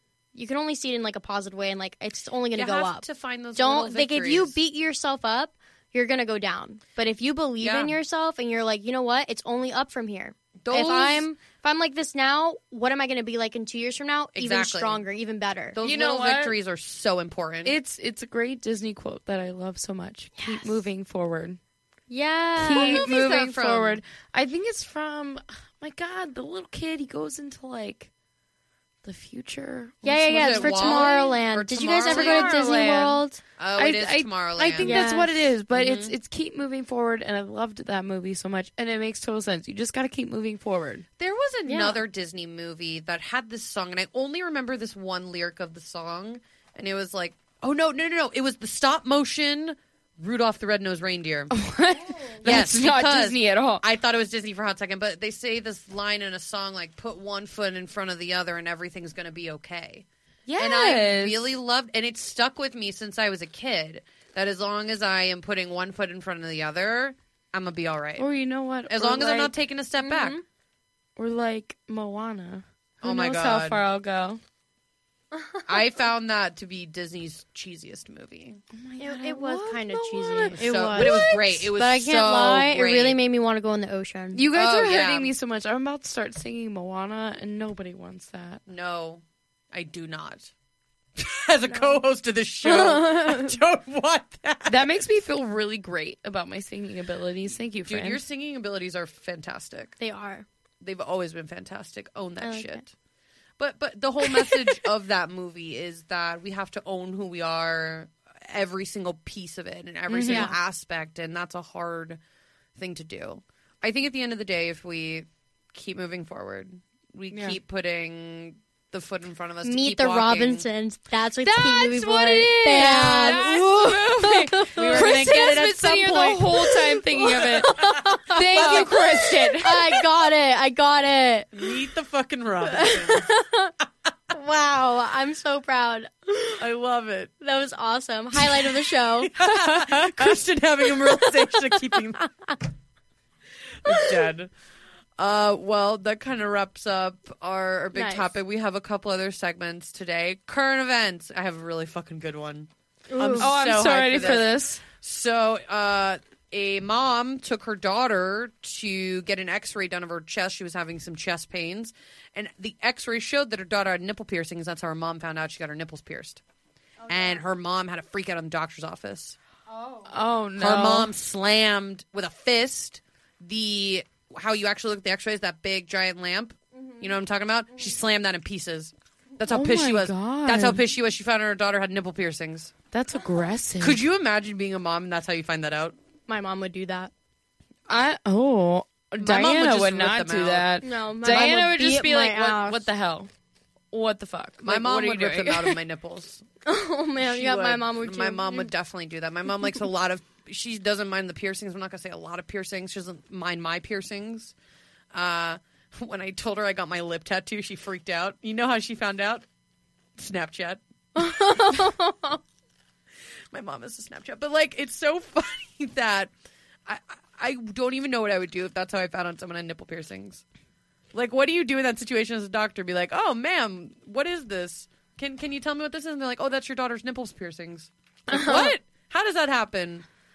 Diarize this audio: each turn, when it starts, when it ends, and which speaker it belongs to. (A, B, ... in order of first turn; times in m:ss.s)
0:00.3-0:15.8 A
0:02.6-0:04.6 B
0:07.6-0:08.0 B
0:10.6-0:11.3 B
0:14.4-0:15.0 B
0:15.7-0:17.8 B
0:15.8-0:16.6 C
0:17.6-0:21.6 C
0:20.4-0:20.8 A
0:22.1-0:23.1 A
0:22.6-0:28.1 C
0:22.7-0:24.0 B
0:29.0-0:31.3 C
0:30.0-0:33.4 A
0:30.4-0:32.9 B
0:32.1-0:33.2 C
0:33.6-0:35.0 B
0:33.8-0:41.0 C
0:34.8-0:35.4 A
0:35.7-0:36.1 B
0:41.2-0:51.6 B
0:41.7-0:42.0 A
0:51.5-0:53.8 C
0:52.1-0:52.4 A
0:52.4-1:00.1 B
1:00.5-1:01.6 C
1:00.6-1:08.3 B
1:08.2-1:09.6 C
1:08.9-1:10.4 B
1:10.0-1:10.4 A
1:11.2-1:14.4 C
1:13.0-1:13.8 B
1:15.3-1:15.6 A
1:15.7-1:18.6 B
1:18.7-1:21.4 C
1:19.0-1:24.4 A
1:20.6-1:23.2 B
1:24.3-1:28.6 C
1:24.5-1:25.3 B
1:28.7-1:30.5 B
1:31.2-1:35.0 B
1:31.7-1:32.0 A
1:32.6-1:33.6 A
1:34.7-1:38.2 C
1:37.9-1:40.0 B
1:40.0-1:40.5 A
1:40.8-1:42.9 B
1:42.4-1:42.8 A
1:43.6-1:52.2 B
1:44.2-1:44.8 A
1:50.1-1:50.5 C
1:50.3-1:50.6 A
1:52.8-2:00.7 B
1:57.3-1:57.6 C
1:59.6-2:03.5 A
2:01.4-2:09.8 C
2:02.7-2:09.2 B
2:04.2-2:05.3 A
2:07.3-2:11.7 A
2:11.5-2:13.3 B
2:12.6-2:13.7 A
2:14.3-2:16.6 A
2:16.6-2:17.3 B
2:17.4-2:22.1 A
2:18.3-2:22.3 B
2:23.8-2:24.5 B
2:23.9-2:24.3 A
2:25.2-2:46.4 B
2:27.9-2:28.3 A
2:33.1-2:33.5 A
2:33.4-2:34.8 C
2:47.0-2:47.4 A
2:47.1-2:49.4 B
2:49.7-2:50.1 A
2:50.1-2:51.1 C
2:50.6-3:02.7 B
2:59.5-3:00.8 C
3:02.9-3:04.0 C
3:03.8-3:06.0 B
3:06.3-3:07.1 A
3:07.9-3:13.3 C
3:09.2-3:10.7 B
3:10.8-3:12.9 A
3:13.9-3:15.8 C
3:14.6-3:16.4 B
3:16.6-3:18.7 A
3:17.2-3:24.5 B
3:25.1-3:29.4 B
3:30.2-3:31.4 B
3:31.2-3:32.4 A
3:33.5-3:36.3 B
3:36.8-3:40.4 B
3:41.1-3:50.1 B
3:48.3-3:48.8 A